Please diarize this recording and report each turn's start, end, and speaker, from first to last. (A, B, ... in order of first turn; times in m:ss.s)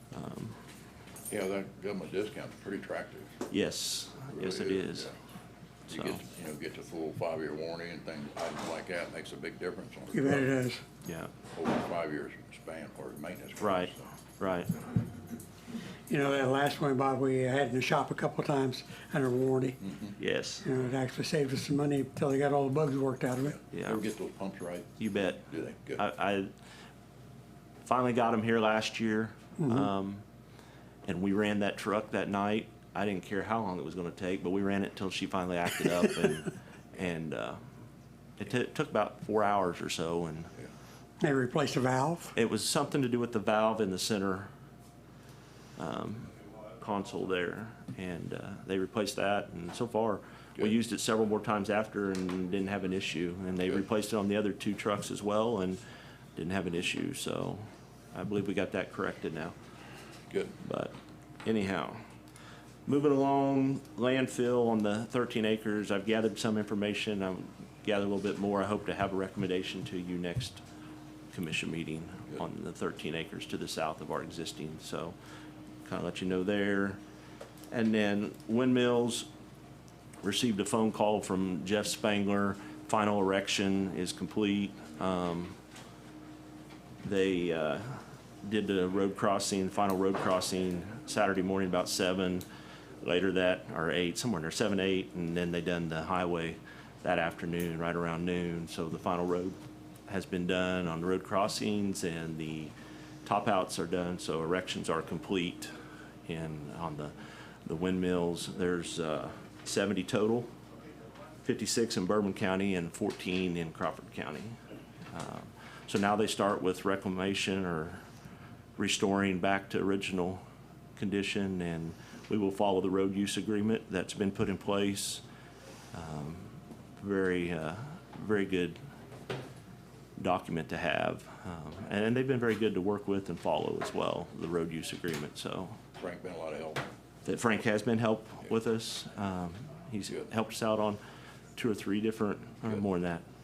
0:00.1-0:00.6 A
0:01.3-0:03.4 B
0:03.5-0:05.1 A
0:04.3-0:05.1 B
0:05.9-0:06.2 A
0:05.9-0:10.5 B
0:10.1-0:10.8 C
0:11.0-0:11.3 A
0:11.5-0:14.1 B
0:13.6-0:14.7 A
0:16.1-0:19.8 C
0:19.8-0:20.1 B
0:20.2-0:20.7 A
0:20.6-0:23.6 C
0:23.7-0:24.0 A
0:23.7-0:26.0 B
0:25.0-0:25.4 A
0:26.0-0:26.5 A
0:27.8-0:30.2 A
0:31.0-0:37.6 A
0:38.4-0:40.5 A
0:41.2-0:42.3 C
0:42.3-0:44.5 A
0:45.8-0:55.8 A
0:56.4-0:59.5 A
1:00.3-1:00.6 B
1:00.6-1:02.0 A
1:02.9-1:10.6 A
1:11.3-1:15.2 A
1:15.8-1:17.0 A
1:17.7-1:19.3 A
1:20.2-1:25.5 A
1:27.0-1:32.4 A
1:33.0-1:39.6 A
1:40.1-1:42.7 A
1:43.2-1:45.7 A
1:46.2-1:47.1 A
1:47.6-1:50.5 A
1:51.4-1:54.6 A
1:55.1-1:58.0 A
1:58.8-2:00.4 A
2:01.0-2:05.2 A
2:05.9-2:08.8 A
2:10.2-2:15.8 A
2:16.0-2:16.9 B
2:17.2-2:21.0 A
2:21.6-2:23.2 A